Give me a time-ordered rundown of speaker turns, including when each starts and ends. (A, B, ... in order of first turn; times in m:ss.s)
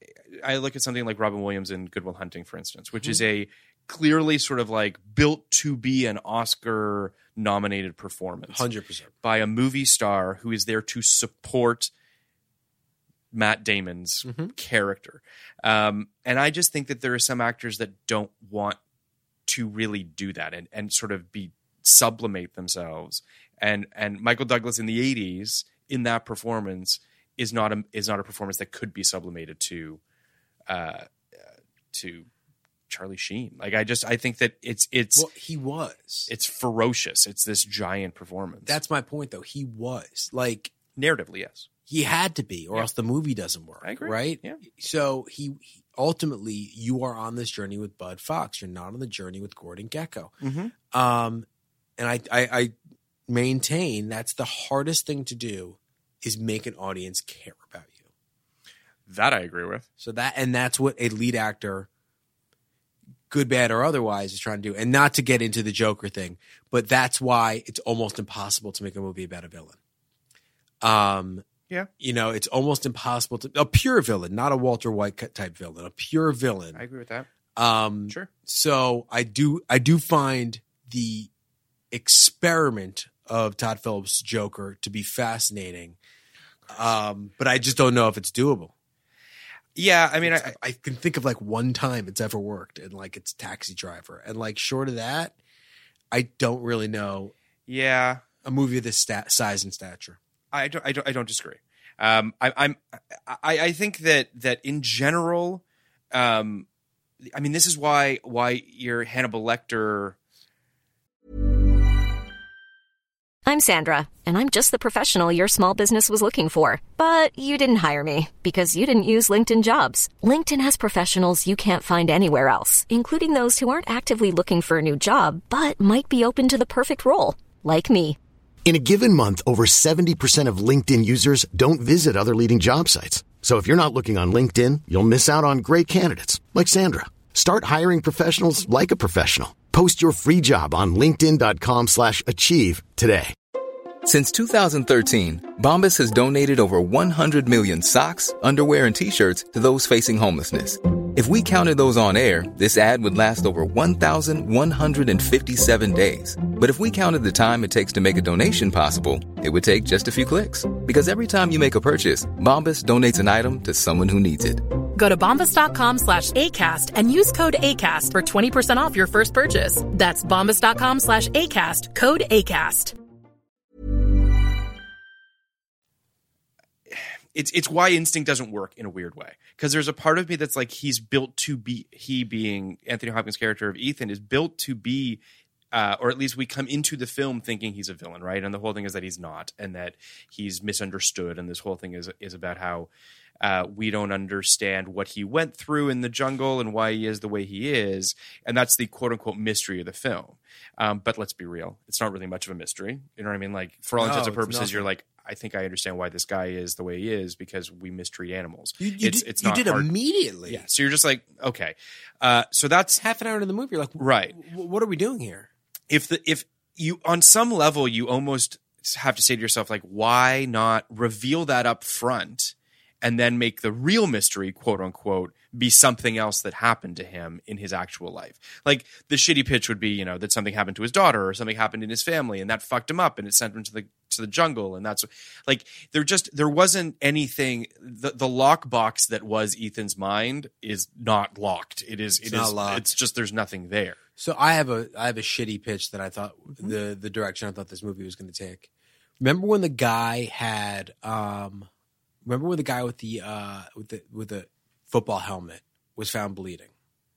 0:00.4-0:08.6 A
0:03.0-0:03.2 B
0:08.5-0:09.1 B
0:09.2-0:11.9 A
0:13.3-0:18.8 A
0:14.2-0:14.5 B
0:19.5-0:30.0 A
0:30.7-0:31.1 A
0:31.9-0:32.3 A
0:32.9-0:35.3 A
0:35.2-0:36.3 B
0:36.3-0:38.8 A
0:38.7-0:40.7 B
0:41.0-0:41.7 A
0:41.9-0:51.5 B
0:43.8-0:44.6 A
0:50.4-0:50.7 A
0:52.0-0:52.7 B
0:53.3-0:58.1 B
0:59.1-0:59.9 A
1:00.0-1:01.9 B
1:03.3-1:09.8 B
1:10.8-1:11.5 B
1:12.0-1:16.8 B
1:16.8-1:17.3 A
1:17.6-1:21.3 B
1:21.9-1:26.0 B
1:26.7-1:28.7 B
1:29.8-1:30.6 A
1:30.2-1:35.4 B
1:36.1-1:37.3 B
1:37.7-1:38.2 A
1:38.4-1:40.2 B
1:40.5-1:45.6 A
1:46.1-1:46.7 A
1:47.3-1:50.2 A
1:53.5-2:08.2 C
2:08.6-2:23.3 D
2:24.0-2:44.6 E
2:45.0-2:52.9 F
2:56.9-3:05.2 A
3:05.7-3:12.9 A
3:13.4-3:29.9 A
3:24.0-3:24.9 B
3:28.8-3:30.7 B
3:30.5-3:33.0 A
3:33.0-3:35.5 B
3:34.0-3:34.4 A
3:35.9-4:04.0 A
4:02.2-4:02.9 B
4:04.2-4:08.7 B
4:09.2-4:11.7 B
4:12.2-4:16.7 B